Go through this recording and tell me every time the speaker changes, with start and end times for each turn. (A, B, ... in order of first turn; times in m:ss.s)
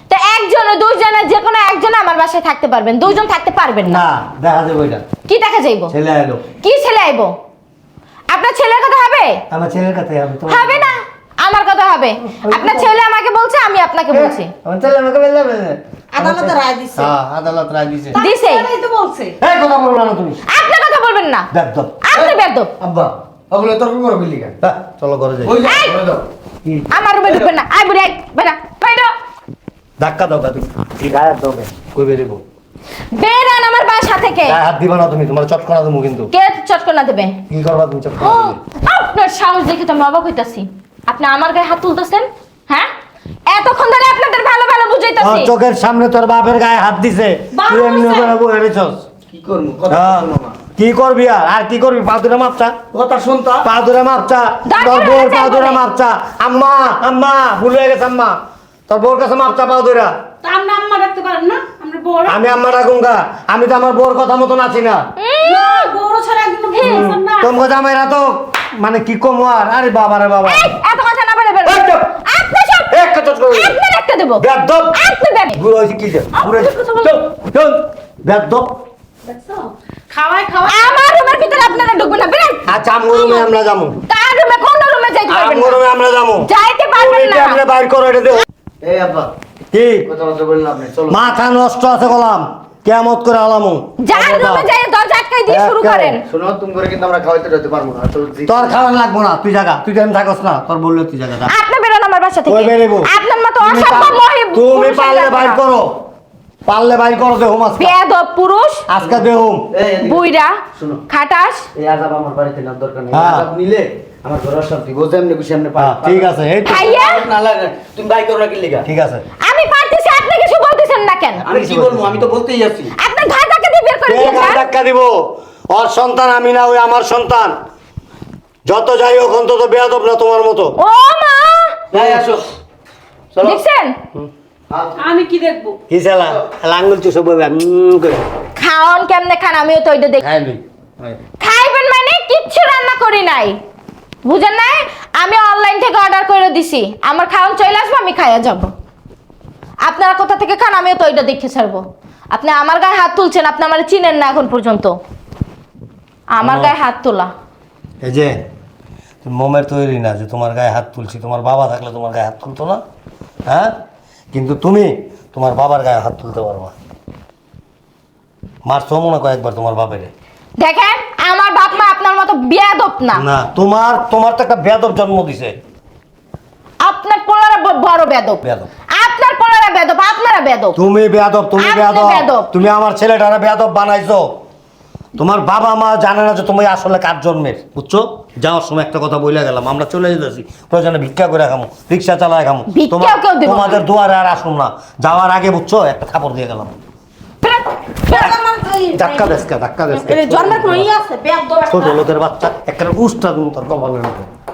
0:00.1-0:04.0 A
0:03.9-0:05.0 B
0:05.3-0:05.9 A
0:05.9-0:06.4 B
0:06.6-0:07.4 A
0:08.3-0:09.4 A
0:09.5-0:10.9 B
0:10.5-0:14.5 A
0:12.4-0:12.9 B
0:14.1-0:18.2 B
0:16.1-0:17.1 C
0:18.1-0:19.4 D
0:18.2-0:18.7 A
0:19.4-0:20.4 B
0:20.5-0:21.5 A
0:21.5-0:22.0 B
0:22.0-0:22.7 A
0:22.1-0:24.6 E
0:24.6-0:25.6 B
0:25.4-0:26.2 E
0:25.6-0:26.0 A
0:26.9-0:29.1 A
0:30.0-0:32.4 B
0:33.1-0:34.6 A
0:34.5-0:36.3 B
0:36.3-0:37.4 A
0:37.5-0:38.6 B
0:38.2-0:42.9 A
0:43.5-0:45.5 A
0:45.2-0:49.1 B
0:47.6-0:48.3 A
0:49.3-0:50.6 E
0:49.9-0:52.8 B
0:52.9-0:53.7 E
0:53.6-1:00.1 B
0:54.7-0:55.8 A
1:00.4-1:02.4 D
1:02.2-1:05.1 B
1:05.2-1:05.9 A
1:05.4-1:07.5 D
1:06.7-1:07.1 A
1:06.8-1:10.7 B
1:10.4-1:12.9 A
1:11.6-1:12.1 B
1:12.9-1:13.8 B
1:13.5-1:15.6 A
1:14.4-1:15.0 B
1:15.6-1:18.7 B
1:16.4-1:17.2 A
1:19.2-1:21.7 D
1:20.7-1:23.5 A
1:22.7-1:24.0 B
1:24.1-1:25.8 A
1:25.3-1:28.4 B
1:26.4-1:27.6 A
1:28.8-1:29.3 E
1:29.7-1:30.1 B
1:30.1-1:31.2 E
1:31.1-1:34.7 B
1:34.0-1:36.2 A
1:35.5-1:36.2 B
1:36.3-1:38.8 E
1:38.5-1:41.5 B
1:41.5-1:45.6 A
1:42.5-1:46.0 B
1:46.7-1:48.0 B
1:47.8-1:48.8 A
1:48.9-1:49.7 B
1:49.0-1:51.0 E
1:50.0-1:51.7 A
1:51.8-1:58.9 E
1:53.1-1:53.5 B
1:55.8-1:56.9 B
1:56.6-1:57.2 A
1:58.8-1:59.2 B
1:59.4-2:01.4 A
2:01.4-2:02.9 E
2:01.5-2:02.4 B
2:03.0-2:04.7 A
2:04.1-2:07.6 B
2:08.7-2:10.8 B
2:10.8-2:11.8 A
2:11.9-2:12.4 E
2:12.0-2:12.2 B
2:13.4-2:14.0 A
2:15.0-2:15.8 D
2:15.9-2:18.2 B
2:18.6-2:20.2 A
2:20.2-2:21.2 B
2:21.4-2:23.6 A
2:24.2-2:28.7 A
2:29.8-2:35.0 A
2:36.3-2:37.3 A
2:36.4-2:36.8 B
2:38.0-2:38.3 B
2:39.2-2:42.8 B
2:43.5-2:43.7 B
2:44.3-2:46.7 B
2:48.7-2:50.1 B
2:50.6-2:53.2 A
2:53.2-2:55.6 B
2:56.8-3:00.8 A
2:58.4-2:58.7 B
3:00.8-3:04.4 B
3:01.6-3:02.5 A
3:05.2-3:16.8 B
3:12.7-3:13.8 A
3:17.4-3:18.3 A
3:18.1-3:19.4 C
3:18.9-3:20.9 B
3:19.9-3:22.0 C
3:21.7-3:24.3 B